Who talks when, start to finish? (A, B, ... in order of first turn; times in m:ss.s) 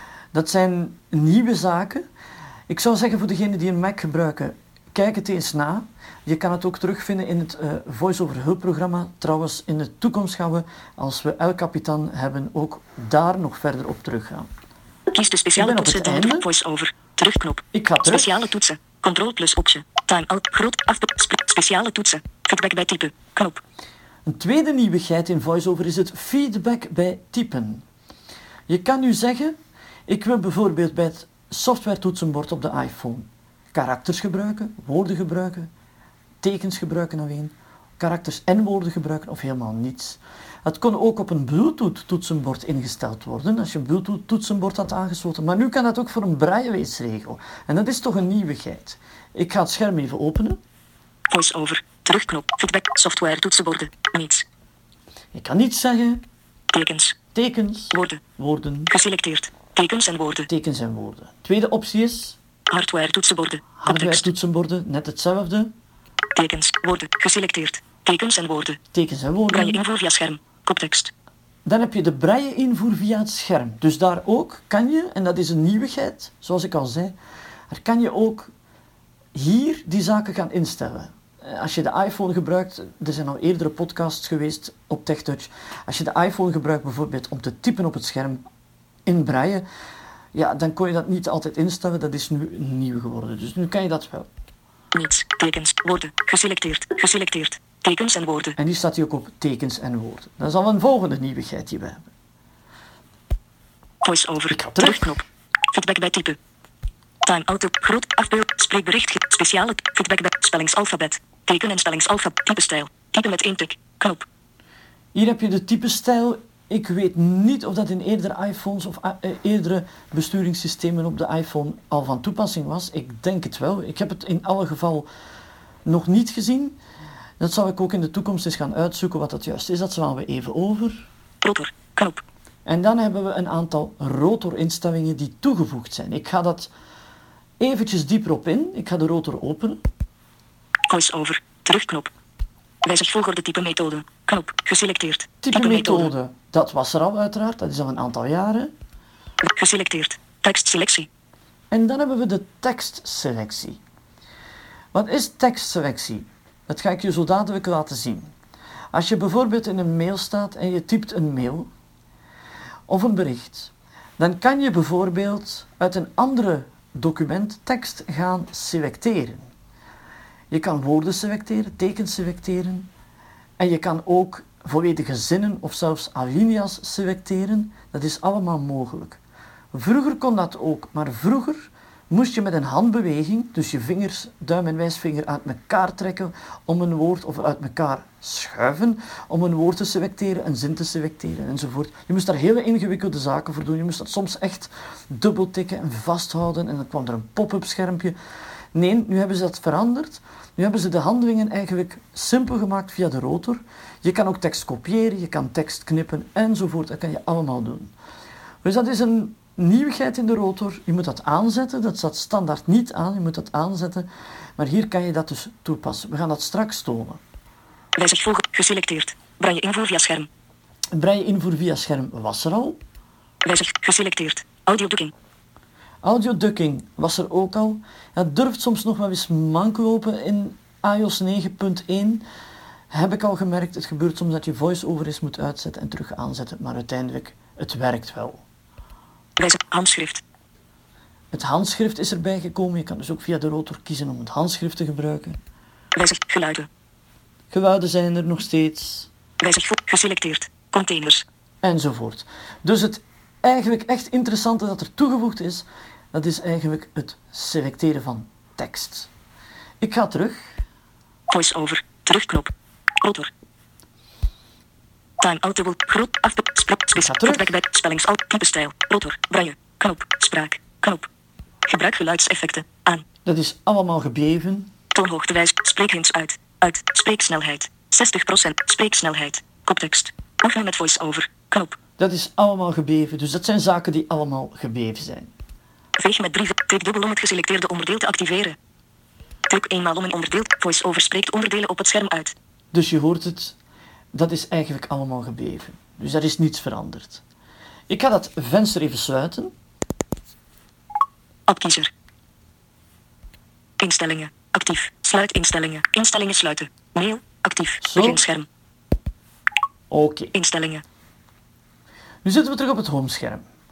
0:00.3-0:02.0 A
0:02.7-0:14.5 A
0:15.1-0:23.6 B
0:15.6-0:16.5 A
0:17.7-0:18.4 A
0:24.3-0:27.8 A
0:28.7-0:29.6 A
0:30.1-0:35.7 A
0:36.4-0:50.6 A
0:51.3-0:54.5 B
0:55.3-0:56.2 A
0:56.7-0:57.2 B
0:57.4-0:58.9 A
0:57.9-0:58.2 B
0:58.9-1:00.5 B
1:00.5-1:02.4 A
1:02.7-1:04.3 B
1:03.8-1:05.7 A
1:06.4-1:08.8 B
1:08.9-1:09.8 A
1:09.5-1:11.1 B
1:11.7-1:17.2 A
1:17.7-1:18.5 A
1:19.4-1:28.4 A
1:29.1-1:29.6 A
1:30.3-1:34.3 A
1:34.9-1:38.6 B
1:38.6-1:42.1 A
1:44.0-1:46.4 B
1:44.5-1:45.2 A
1:47.2-1:54.3 B
1:55.1-2:05.1 A
2:05.9-2:06.8 A
2:07.4-2:11.0 A
2:11.4-2:12.2 B
2:12.6-2:16.7 A
2:17.6-2:19.8 A
2:20.9-2:22.1 B
2:22.8-2:26.1 B
2:25.4-2:28.7 A
2:29.4-2:31.1 B
2:31.7-2:33.8 A
2:34.9-2:38.3 A
2:38.9-2:41.7 A
2:42.9-2:49.5 A
2:50.5-2:52.9 A
2:53.6-2:59.2 A
2:59.7-3:18.2 A
3:18.7-3:27.9 A
3:28.6-3:37.2 A
3:38.0-3:40.3 B
3:40.9-3:42.8 A
3:43.4-3:45.1 B
3:46.0-3:52.2 A
3:52.9-3:58.4 A
3:59.4-4:00.2 B
4:01.3-4:05.4 A
4:06.0-4:06.7 B
4:07.5-4:09.1 A
4:09.4-4:11.3 B
4:11.6-4:19.1 A
4:19.8-4:20.6 A
4:21.3-4:23.3 B
4:25.2-4:31.1 B
4:27.0-4:27.6 A
4:31.7-4:33.0 B
4:33.2-4:34.7 A
4:34.9-4:41.8 B
4:42.0-4:45.3 A
4:46.0-4:48.6 B
4:49.5-4:52.4 B
4:52.7-4:53.6 A
4:54.1-4:57.2 A
4:57.9-4:59.5 A
5:01.5-5:01.9 B
5:03.8-5:08.5 B
5:07.8-5:08.2 A
5:09.9-5:10.3 A
5:10.3-5:10.8 B
5:12.2-5:13.4 A